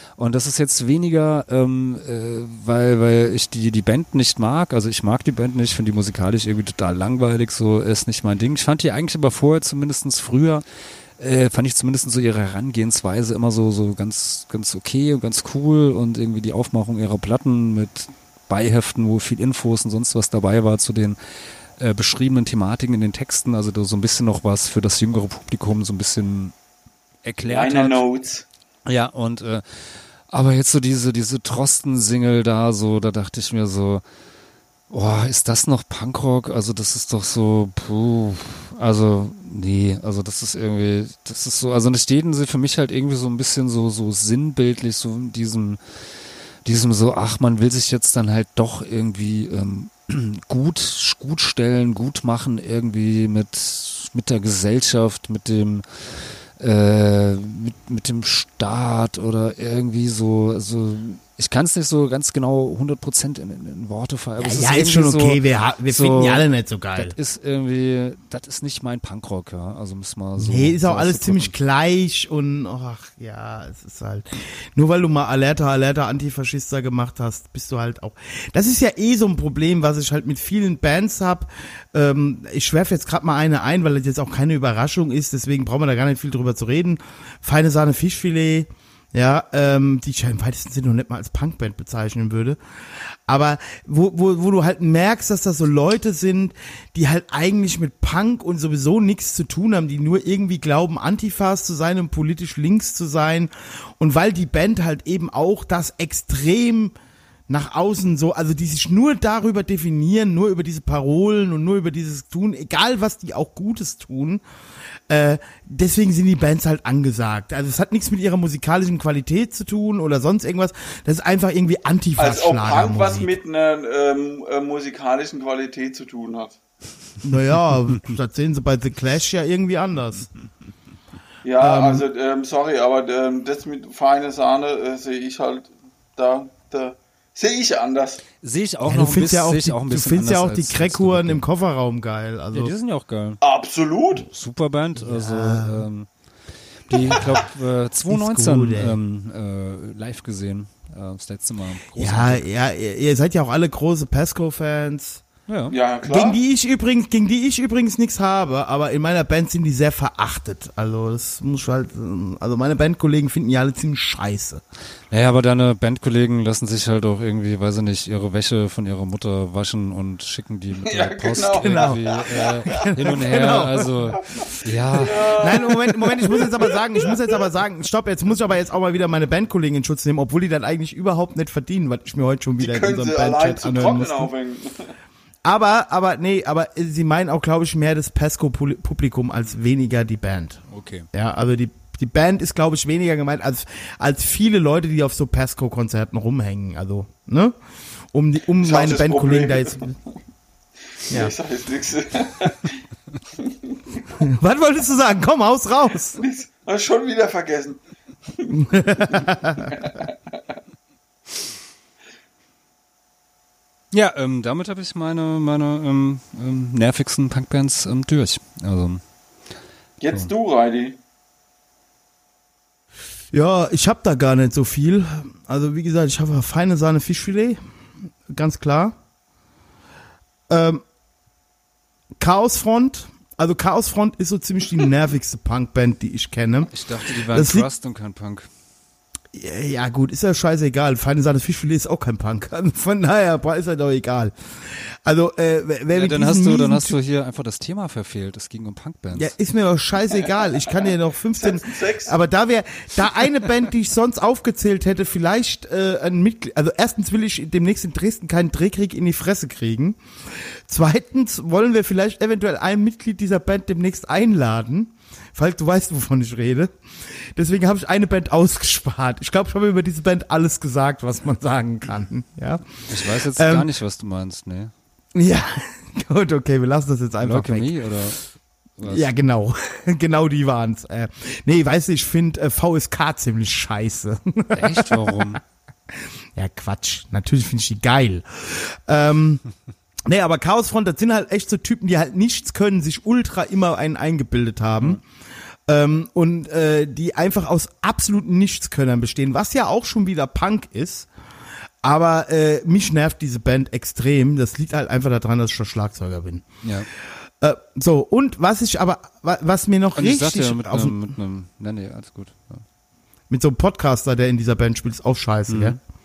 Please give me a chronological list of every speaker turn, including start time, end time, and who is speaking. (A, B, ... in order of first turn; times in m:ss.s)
0:00.2-0:10.6 A
0:11.2-0:21.2 A
0:21.8-0:26.5 A
0:27.2-0:28.0 A
0:27.4-0:28.4 B
0:28.8-0:34.0 A
0:34.9-0:45.8 A
0:46.6-1:11.5 A
1:04.4-1:07.1 C
1:10.4-1:32.6 C
1:33.3-1:46.9 C
1:47.5-1:54.4 C
1:55.1-2:03.4 C
2:02.2-2:06.6 B
2:07.2-2:10.3 C
2:11.4-2:18.2 B
2:11.6-2:12.0 C
2:18.4-2:21.4 A
2:18.8-2:22.7 C
2:22.5-2:23.4 A
2:23.4-2:24.2 B
2:24.2-2:26.1 A
2:25.0-2:25.8 C
2:26.9-2:32.4 A
2:28.1-2:29.0 C
2:32.0-2:35.2 C
2:35.5-2:35.7 A
2:35.7-2:36.4 B
2:36.0-2:44.6 C
2:45.1-2:55.3 A
2:50.9-2:52.9 B
2:51.4-3:04.3 C
2:55.0-2:57.3 B
3:02.6-3:04.9 B
3:05.4-3:17.6 C
3:10.7-3:11.0 A
3:18.1-3:19.9 C
3:18.6-3:19.9 B
3:21.0-3:22.8 B
3:23.4-3:24.2 B
3:24.2-3:26.2 C
3:26.2-3:27.8 B
3:28.4-3:30.4 B
3:28.5-3:29.7 C
3:33.9-3:39.0 A
3:40.0-3:41.0 B
3:43.3-3:47.6 C
3:48.3-3:49.0 C
3:50.5-3:50.8 C
3:52.2-3:56.7 C
3:56.7-3:58.5 A
3:57.3-3:57.7 C
3:59.3-4:04.3 C
4:05.0-4:07.0 C
4:05.9-4:09.3 A
4:09.1-4:20.0 C
4:11.4-4:12.2 B
4:20.7-4:33.7 C
4:32.9-4:34.7 A
4:35.1-4:37.9 C
4:37.2-4:38.2 A
4:38.8-4:39.1 A
4:38.8-4:45.4 C
4:44.5-4:45.4 A
4:46.3-4:49.4 C
4:50.1-4:55.0 C
4:55.7-5:01.1 C
5:01.8-5:06.5 C
5:06.6-5:06.9 A
5:07.4-5:11.0 C
5:09.9-5:12.6 A
5:13.3-5:15.8 C
5:15.5-5:15.8 A